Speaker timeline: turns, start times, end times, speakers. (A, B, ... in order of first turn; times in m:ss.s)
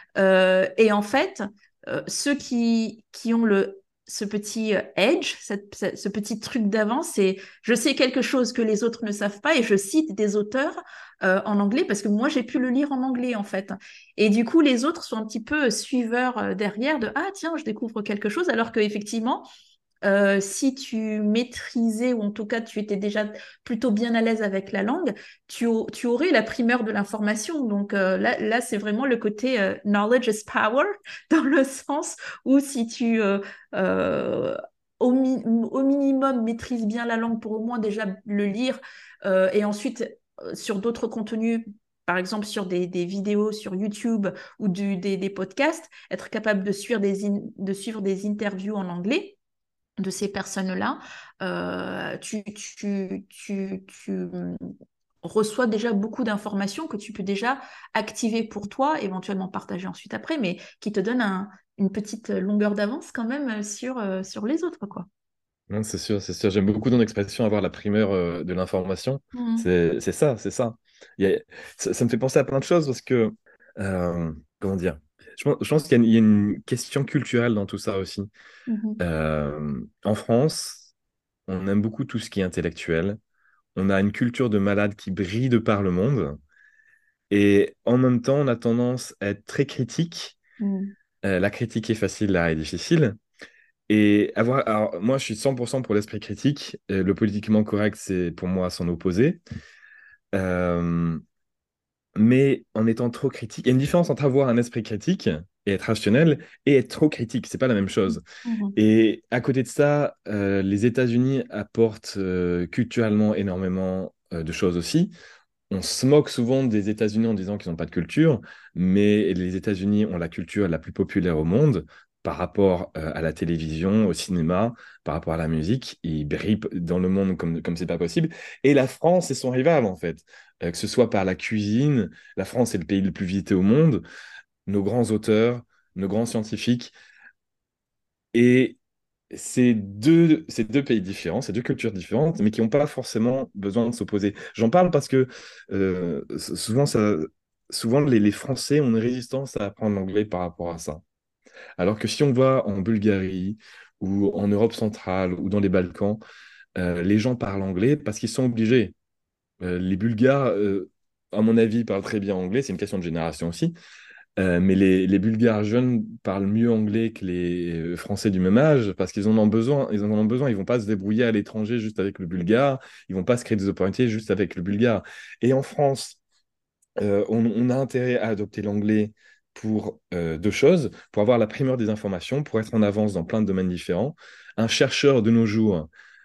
0:00.2-0:19.4 A
0:20.0-0:49.4 A
0:50.0-0:54.6 A
0:55.2-1:05.1 A
1:05.7-1:18.3 B
1:09.3-1:09.6 A
1:18.7-1:19.0 A
1:19.0-1:20.9 B
1:21.5-1:23.2 B
1:23.7-1:26.4 B
1:27.3-1:30.4 B
1:30.6-1:30.9 A
1:31.2-1:33.2 B
1:33.9-1:39.4 B
1:40.3-1:41.2 B
1:42.2-1:48.2 B
1:48.4-1:48.8 A
1:48.8-1:55.1 B
1:55.7-2:14.0 B
2:14.6-2:16.9 B
2:18.3-2:18.8 B
2:19.3-2:31.0 B
2:31.8-2:36.2 B
2:36.8-2:38.9 B
2:39.6-2:43.7 B
2:44.4-2:56.2 B
2:57.0-3:05.9 B